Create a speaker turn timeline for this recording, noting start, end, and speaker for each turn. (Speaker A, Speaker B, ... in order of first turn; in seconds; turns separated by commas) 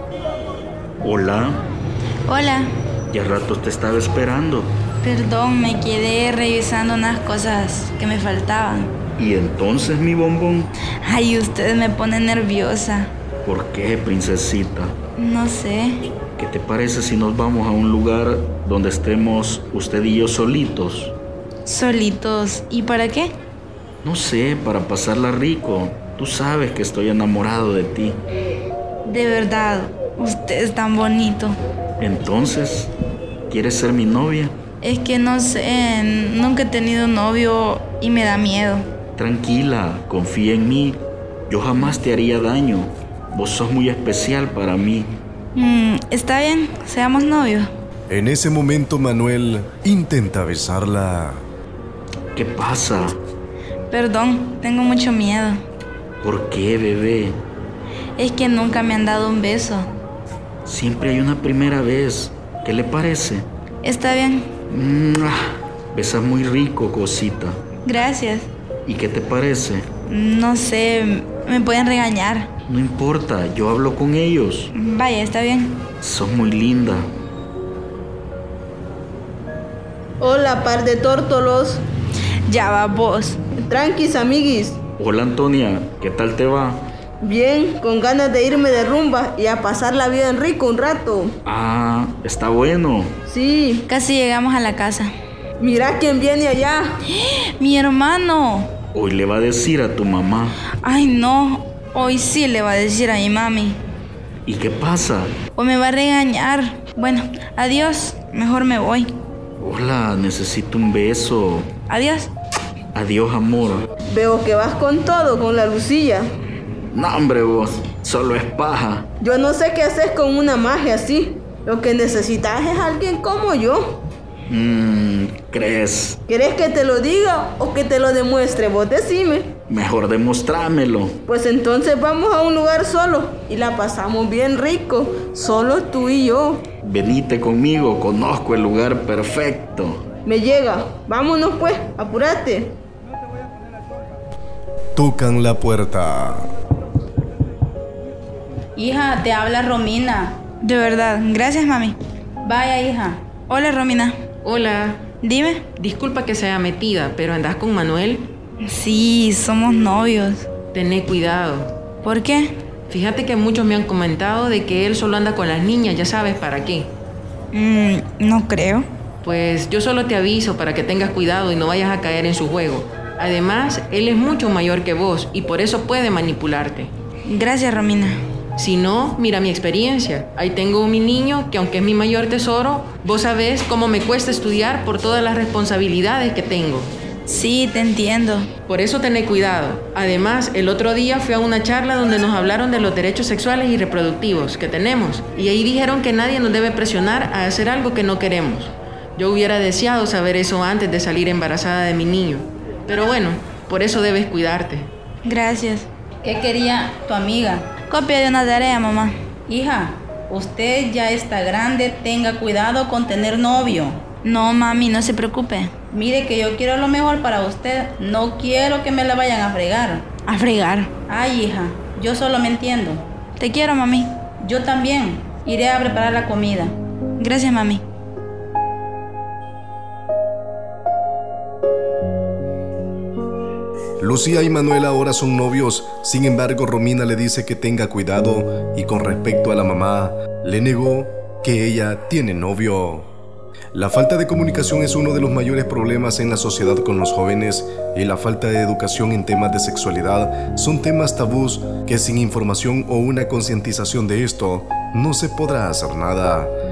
Speaker A: 1.0-1.6, Speaker B: 2.3-2.7, Speaker A: 3.1-4.8, Speaker B: 5.0-8.9, Speaker A: 9.2-10.7, Speaker B: 11.0-13.1, Speaker A: 13.4-15.0, Speaker B: 15.2-16.0, Speaker A: 16.3-21.1, Speaker B: 21.7-23.3, Speaker A: 24.0-28.2, Speaker B: 29.1-31.6, Speaker A: 32.0-32.9, Speaker A: 33.5-34.6, Speaker B: 34.8-38.9, Speaker A: 39.2-45.1, Speaker B: 45.5-47.7, Speaker C: 48.1-51.5, Speaker A: 52.4-53.2, Speaker B: 53.9-55.6, Speaker A: 56.2-57.4, Speaker B: 58.2-59.9, Speaker A: 60.6-63.5, Speaker B: 63.8-64.5, Speaker A: 64.7-67.6, Speaker B: 67.8-68.5, Speaker A: 68.8-69.9, Speaker B: 70.1-72.5, Speaker A: 72.7-74.7, Speaker B: 74.7-75.9, Speaker A: 76.0-77.1, Speaker D: 80.2-81.8, Speaker B: 82.5-83.4, Speaker D: 83.6-84.8, Speaker A: 85.0-86.8, Speaker D: 87.2-91.3, Speaker A: 91.5-93.2, Speaker D: 93.3-93.8, Speaker B: 93.9-95.1, Speaker D: 95.6-97.0, Speaker B: 97.1-98.7, Speaker A: 98.9-100.6, Speaker B: 100.7-103.8, Speaker A: 104.5-105.4, Speaker B: 105.5-109.1, Speaker A: 109.6-111.7, Speaker B: 111.9-112.3, Speaker A: 112.9-113.9, Speaker D: 114.1-116.3, Speaker A: 116.9-119.1, Speaker D: 119.2-124.1, Speaker A: 124.5-126.2, Speaker D: 126.3-129.6, Speaker A: 129.7-131.2, Speaker D: 131.3-136.7, Speaker A: 136.8-140.0, Speaker D: 140.2-142.8, Speaker C: 145.0-146.5, Speaker E: 148.8-150.4, Speaker B: 150.6-152.0, Speaker E: 152.4-153.2, Speaker B: 153.5-154.2, Speaker F: 154.4-155.1, Speaker B: 155.2-155.7, Speaker F: 155.8-158.3, Speaker B: 158.6-160.5, Speaker F: 160.7-161.8, Speaker B: 162.0-162.5, Speaker F: 162.9-166.9, Speaker B: 167.5-168.9, Speaker F: 169.2-176.9, Speaker B: 177.3-178.2, Speaker F: 178.6-186.9, Speaker B: 187.3-188.5, Speaker F: 188.7-204.9, Speaker B: 205.2-205.9, Speaker E: 206.2-207.7, Speaker B: 207.9-209.1, Speaker E: 209.5-214.0, Speaker B: 214.2-215.7, Speaker E: 215.9-220.1, Speaker B: 220.2-220.9, Speaker E: 221.1-223.0, Speaker B: 223.4-224.1, Speaker E: 224.4-226.7, Speaker B: 227.2-227.8, Speaker C: 234.0-243.1, Speaker C: 243.7-256.5